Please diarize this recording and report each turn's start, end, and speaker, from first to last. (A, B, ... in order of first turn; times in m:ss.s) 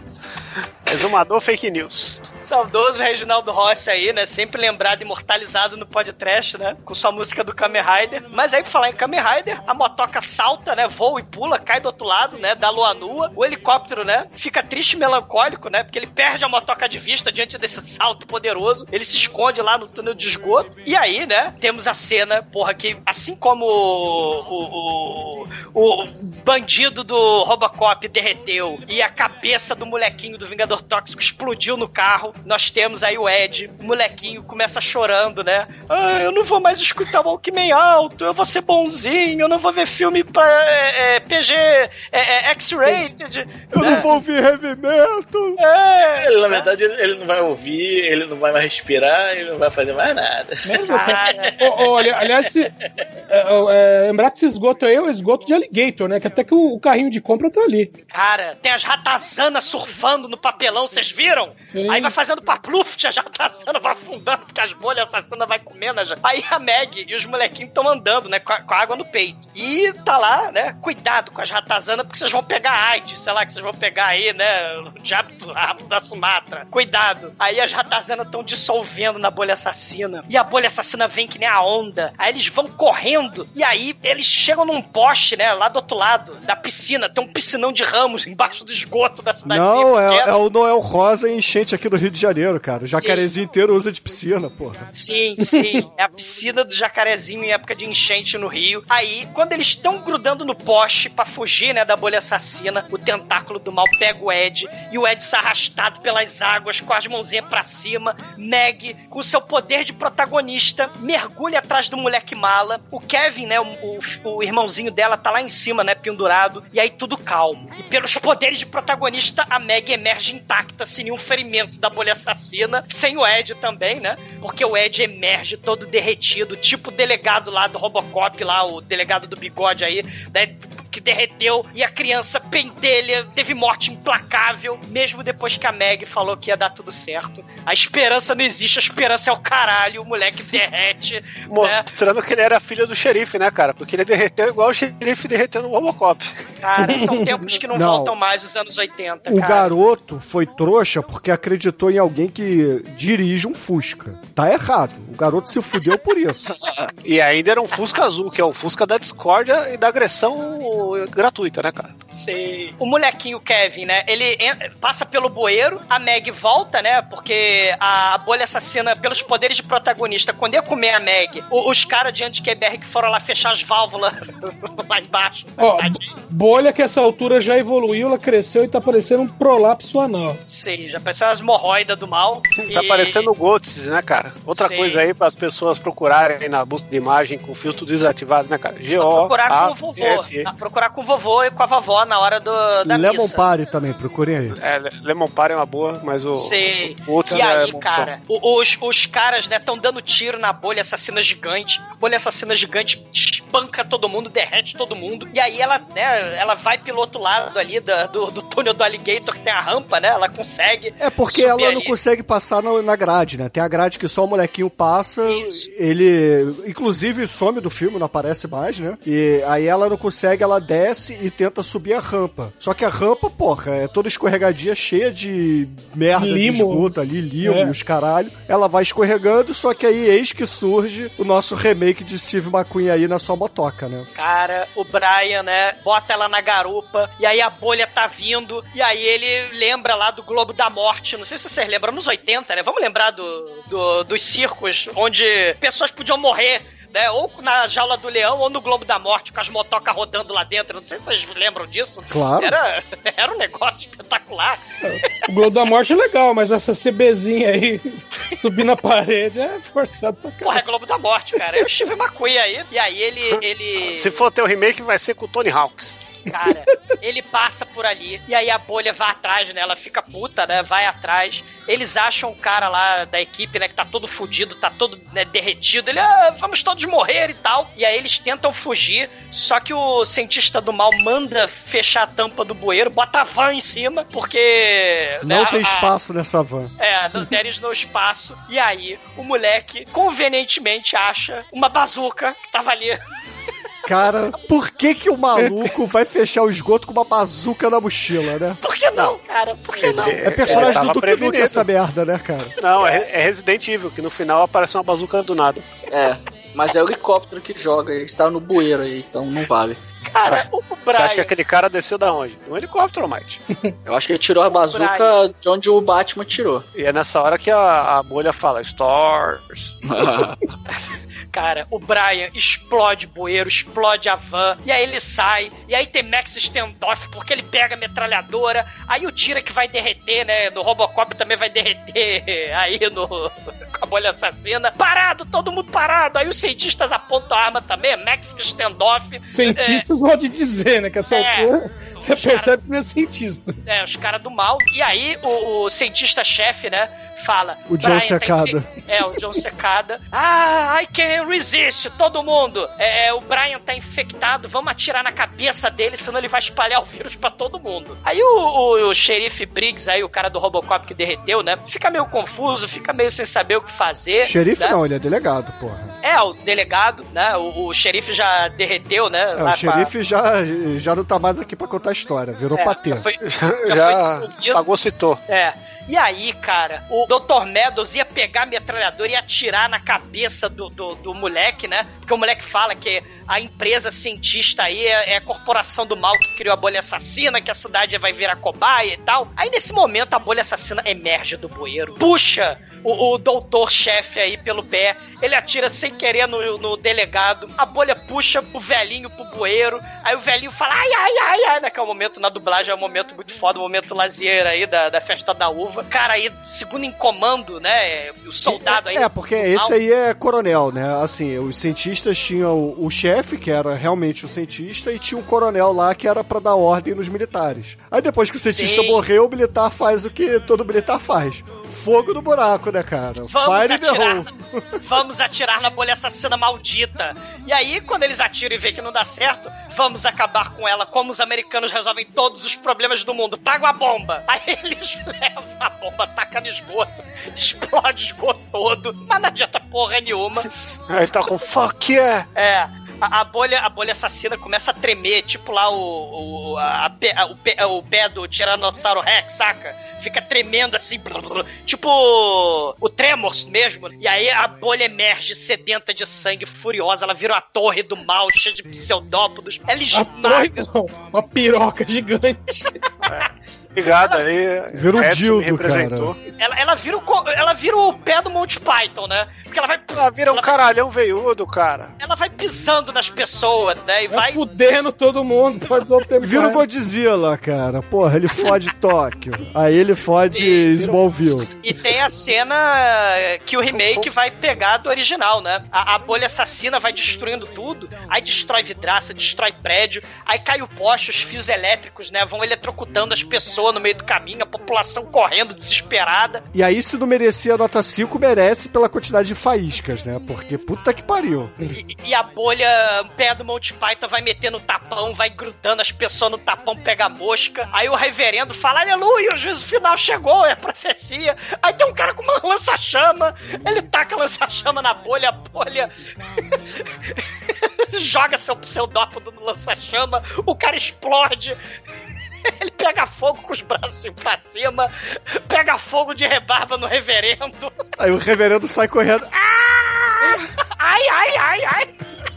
0:00.9-0:02.3 A
0:02.4-0:44.1 B
0:43.7-0:45.6 C
0:43.8-0:44.1 D
0:45.6-0:46.7 B
0:46.2-0:51.7 E
0:50.6-0:52.7 D
0:50.9-0:51.7 B
0:53.3-0:57.9 D
0:58.1-1:30.3 B
1:01.7-1:02.2 D
1:29.4-1:34.9 C
1:32.9-1:33.3 B
1:34.9-2:21.8 B
2:21.5-2:26.3 A
2:26.6-2:29.7 B
2:26.8-2:27.4 D
2:27.7-2:28.2 C
2:29.3-2:36.4 C
2:37.0-2:41.9 A
2:42.1-2:56.1 B
2:55.6-3:00.4 D
3:00.5-3:03.3 B
3:02.6-3:10.5 A
3:04.6-3:05.0 B
3:09.0-3:13.4 B
3:12.8-3:14.6 C
3:14.6-3:18.1 A
3:16.3-3:31.9 B
3:31.0-3:54.1 C
3:35.3-3:35.7 B
3:46.2-3:47.7 D
3:54.2-4:15.1 B
4:12.1-4:12.6 C
4:14.9-4:20.6 D
4:20.4-4:24.2 B
4:23.3-4:26.0 A
4:26.3-4:45.9 B
4:45.2-4:46.7 C
4:46.8-4:53.0 B
4:53.9-4:58.6 C
4:55.4-4:55.7 D
4:58.6-5:00.8 B
4:59.8-5:01.7 A
4:59.9-5:02.6 C
5:02.6-5:05.7 A
5:05.9-5:09.8 F
5:10.1-5:11.3 B
5:10.3-5:13.4 A
5:13.9-5:16.6 F
5:14.6-5:15.2 B
5:16.7-5:20.3 A
5:19.9-5:20.4 F
5:21.3-5:39.9 B
5:39.3-5:43.5 D
5:41.1-5:42.5 B
5:43.6-6:04.8 B
5:47.7-5:48.7 C
6:04.2-6:05.9 C
6:06.0-6:09.9 B
6:09.4-6:13.1 C
6:12.6-6:14.6 B
6:13.2-6:15.2 A
6:15.3-6:49.7 B
6:48.4-7:04.8 C
6:58.4-6:59.0 B
7:03.3-7:04.3 B
7:04.8-7:20.5 B
7:20.9-7:22.3 A
7:22.4-7:40.5 B
7:39.9-7:42.7 D
7:43.1-7:46.2 A
7:44.7-7:46.1 C
7:46.4-7:50.5 B
7:50.0-7:51.9 A
7:52.0-7:54.4 B
7:54.1-7:56.6 D
7:56.2-8:01.5 C
8:00.3-8:00.9 B
8:01.6-8:16.4 B
8:16.5-8:21.5 C
8:21.7-8:35.9 B
8:37.8-8:41.6 B
8:42.4-8:44.9 B
8:45.5-8:47.7 B
8:48.0-8:50.4 C
8:50.3-8:51.9 B